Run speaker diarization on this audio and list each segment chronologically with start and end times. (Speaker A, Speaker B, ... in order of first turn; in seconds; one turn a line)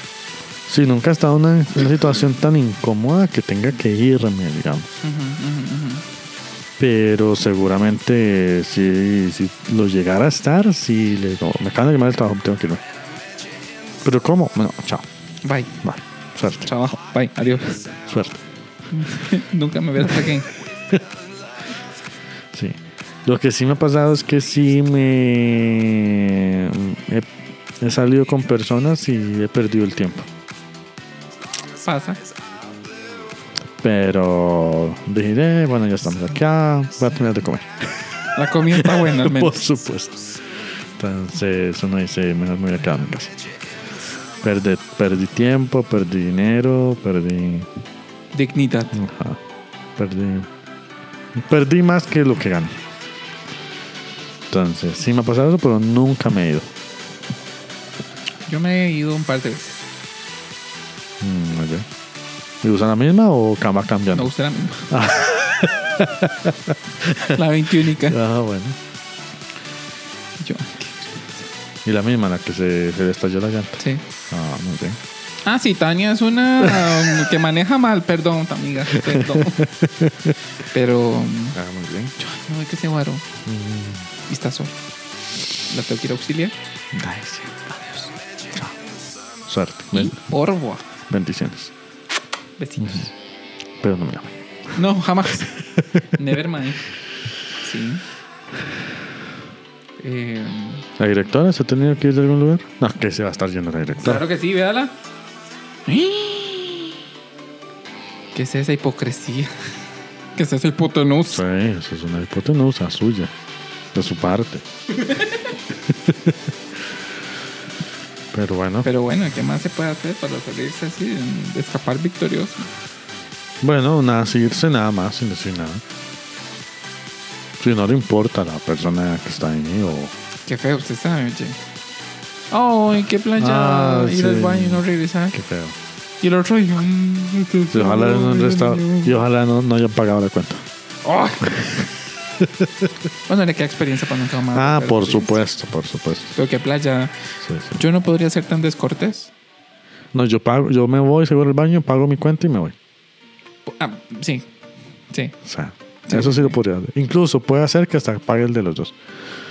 Speaker A: 0.7-4.9
Speaker B: 5.0-6.0
Speaker A: 6.8-12.8
Speaker A: 14.0-15.1
Speaker B: 15.4-15.7
Speaker A: 15.8-16.7
Speaker B: 16.6-17.9
Speaker A: 18.1-18.4
Speaker B: 18.9-20.5
Speaker A: 22.5-27.3
Speaker A: 27.8-30.3
Speaker B: 31.8-32.2
Speaker A: 33.8-38.0
Speaker B: 38.3-39.6
Speaker A: 38.7-40.4
Speaker A: 41.0-43.3
Speaker A: 44.4-47.7
Speaker B: 48.3-49.0
Speaker A: 48.9-49.4
Speaker A: 50.0-50.5
Speaker A: 51.3-52.8
Speaker A: 54.5-56.7
Speaker B: 58.5-59.8
Speaker A: 61.2-61.9
Speaker A: 62.6-64.3
Speaker B: 64.1-64.9
Speaker A: 64.9-67.4
Speaker B: 67.2-68.2
Speaker A: 68.0-68.8
Speaker B: 70.4-71.5
Speaker A: 71.8-75.0
Speaker B: 73.8-74.0
Speaker B: 75.4-79.7
Speaker A: 78.9-80.3
Speaker B: 80.7-81.6
Speaker A: 81.5-82.1
Speaker B: 82.2-83.2
Speaker A: 83.4-84.1
Speaker B: 84.3-84.8
Speaker B: 85.7-86.5
Speaker A: 86.9-88.0
Speaker A: 89.5-90.2
Speaker B: 89.9-90.8
Speaker A: 91.1-91.7
Speaker B: 92.6-93.1
Speaker A: 92.8-93.1
Speaker A: 93.8-94.4
Speaker B: 94.7-96.8
Speaker A: 95.8-96.0
Speaker B: 97.6-98.0
Speaker B: 100.0-100.8
Speaker A: 101.0-104.2
Speaker B: 104.0-105.0
Speaker B: 105.8-107.0
Speaker B: 108.3-109.7
Speaker B: 110.3-111.4
Speaker A: 111.3-113.3
Speaker A: 113.9-114.7
Speaker B: 115.0-115.4
Speaker A: 115.9-116.4
Speaker A: 118.3-118.9
Speaker B: 118.8-122.7
Speaker A: 123.6-125.8
Speaker A: 127.6-130.1
Speaker B: 130.4-131.6
Speaker B: 132.5-135.3
Speaker A: 133.4-135.8
Speaker B: 136.2-139.2
Speaker A: 137.7-140.7
Speaker B: 141.0-141.8
Speaker A: 142.4-142.9
Speaker B: 143.2-145.4
Speaker A: 144.5-146.4
Speaker B: 146.3-147.2
Speaker A: 147.4-147.8
Speaker B: 147.7-149.3
Speaker A: 150.1-152.8
Speaker B: 153.7-154.5
Speaker B: 155.1-155.4
Speaker A: 155.4-158.9
Speaker B: 156.1-156.6